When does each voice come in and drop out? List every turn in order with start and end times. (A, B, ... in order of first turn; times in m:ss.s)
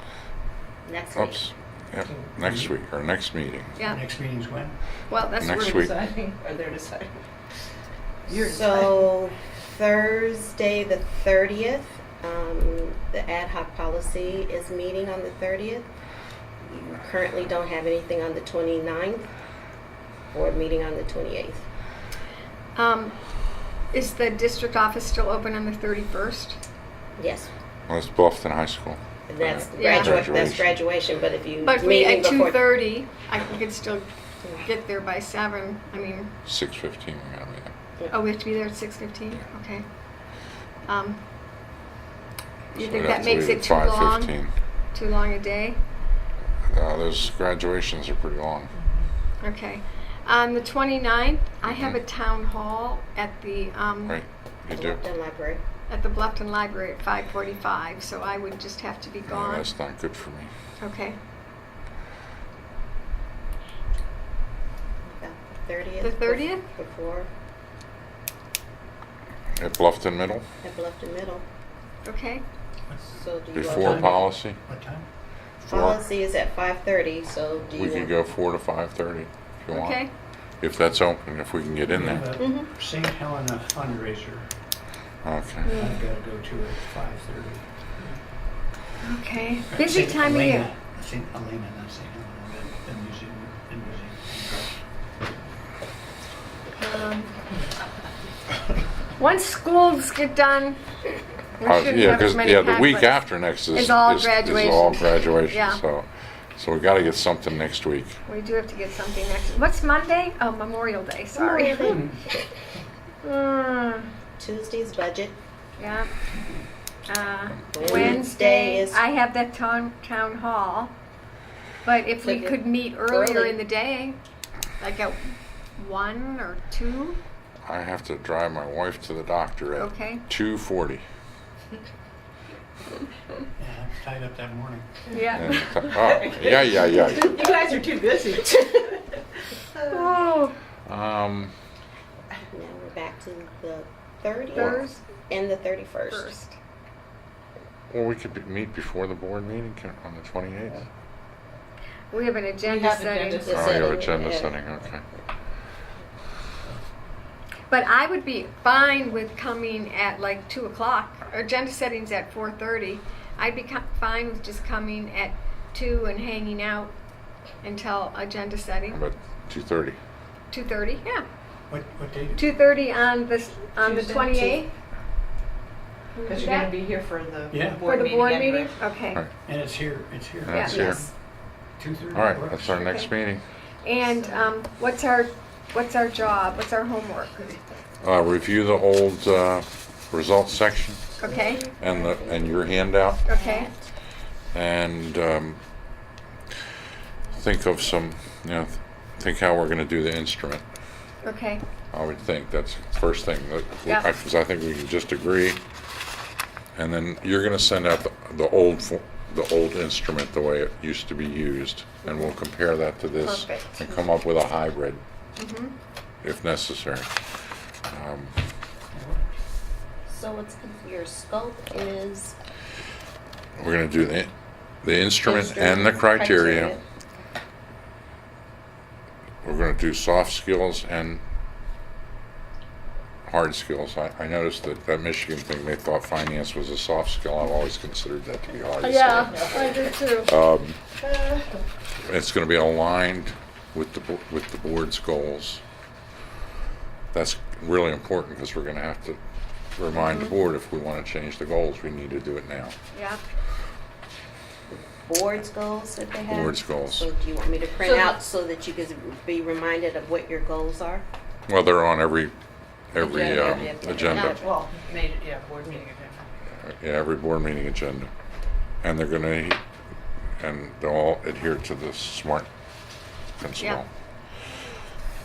0:00.8-0:01.5 A
0:01.2-0:03.8 B
0:02.0-0:02.8 C
0:03.8-0:04.0 D
0:03.8-0:04.8 C
0:05.1-0:05.9 D
0:05.4-0:06.0 B
0:05.5-0:07.2 E
0:08.3-0:09.1 E
0:08.3-0:15.9 A
0:16.6-0:19.3 A
0:20.3-0:21.6 A
0:22.8-0:23.2 D
0:23.9-0:26.6 D
0:27.2-0:27.5 A
0:27.9-0:30.8 B
0:29.3-0:32.7 A
0:29.8-0:30.2 D
0:31.6-0:36.3 D
0:36.5-0:37.7 B
0:38.1-0:39.9 D
0:40.9-0:41.2 D
0:42.7-0:44.4 D
0:42.8-0:44.5 B
0:44.9-0:45.8 D
0:46.7-0:48.7 B
0:49.4-0:54.2 D
0:51.7-0:52.0 B
0:54.1-0:55.0 B
0:54.8-0:55.6 A
0:55.9-0:59.7 D
0:59.3-1:00.5 B
1:00.8-1:01.2 D
1:05.0-1:07.3 A
1:06.0-1:06.6 D
1:09.6-1:10.4 B
1:10.6-1:11.4 A
1:12.0-1:12.4 D
1:12.9-1:15.1 C
1:13.2-1:14.3 A
1:13.5-1:14.6 B
1:15.6-1:16.0 B
1:15.7-1:18.2 A
1:17.8-1:20.0 B
1:19.7-1:20.1 D
1:20.6-1:22.4 B
1:21.9-1:24.5 C
1:22.4-1:22.7 A
1:25.2-1:25.8 B
1:25.6-1:26.0 D
1:25.7-1:27.7 C
1:29.0-1:30.7 D
1:29.7-1:34.8 C
1:36.8-1:37.3 D
1:39.2-1:40.8 D
1:41.6-1:45.8 D
1:41.6-1:48.2 B
1:48.3-1:52.1 D
1:51.3-1:52.1 A
1:53.2-1:54.1 D
1:54.4-1:55.4 A
1:55.8-1:56.1 D
1:57.1-2:00.9 D
1:57.7-1:59.0 A
1:57.9-1:58.1 B
2:01.8-2:04.2 D
2:02.2-2:03.6 A
2:04.8-2:05.2 D
2:05.8-2:07.2 D
2:07.7-2:11.0 B
2:09.8-2:10.2 D
2:13.6-2:15.0 C
2:15.1-2:15.7 D
2:15.3-2:17.6 B
2:16.0-2:19.2 E
2:19.8-2:20.0 E
2:19.8-2:20.6 D
2:20.9-2:21.5 B
2:22.5-2:26.3 A
2:24.5-2:25.0 D
2:26.1-2:26.6 D
2:27.9-2:30.8 B
2:32.1-2:33.6 D
2:32.6-2:33.6 E
2:33.4-2:34.6 A
2:33.5-2:35.0 B
2:37.7-2:46.9 D
2:47.6-2:49.0 D
2:48.9-2:50.0 B
2:50.5-2:51.2 D
2:51.7-2:52.4 C
2:52.3-2:54.7 D
2:53.8-2:54.6 E
2:56.1-2:56.7 D
2:56.3-2:58.7 E
2:57.5-2:57.9 C
2:57.8-2:59.2 D
2:59.4-3:01.1 C
3:00.5-3:01.0 B
3:00.5-3:00.9 D
3:00.7-3:01.0 A
3:01.8-3:02.8 C
3:02.1-3:03.4 B
3:02.7-3:03.1 D
3:03.8-3:07.5 D
3:08.0-3:11.1 B
3:11.2-3:11.6 D
3:11.2-3:13.9 A
3:11.8-3:13.2 B
3:13.3-3:13.7 D
3:14.5-3:15.6 B
3:17.4-3:20.6 B
3:21.2-3:21.6 D
3:21.9-3:25.6 B
3:26.8-3:35.0 B
3:33.2-3:34.0 D
3:35.4-3:35.7 D
3:36.2-3:37.1 B
3:37.9-3:38.3 B
3:38.9-3:39.2 C
3:40.1-3:42.4 A
3:43.6-3:44.3 B
3:44.8-3:46.8 B
3:45.2-3:46.8 A
3:49.4-3:51.2 B
3:53.3-4:00.8 B
3:58.8-4:00.4 D
3:59.2-3:59.9 E
4:01.0-4:01.6 E
4:02.0-4:05.6 B
4:07.1-4:09.2 B
4:09.8-4:12.8 B
4:09.9-4:10.3 D
4:12.9-4:13.2 D
4:14.7-4:21.0 A
4:16.3-4:17.1 B
4:21.5-4:22.3 B
4:22.9-4:24.4 B
4:23.0-4:24.6 A
4:24.0-4:26.2 E
4:26.6-4:28.1 B
4:28.8-4:29.6 B
4:30.4-4:32.5 B
4:33.4-4:33.9 B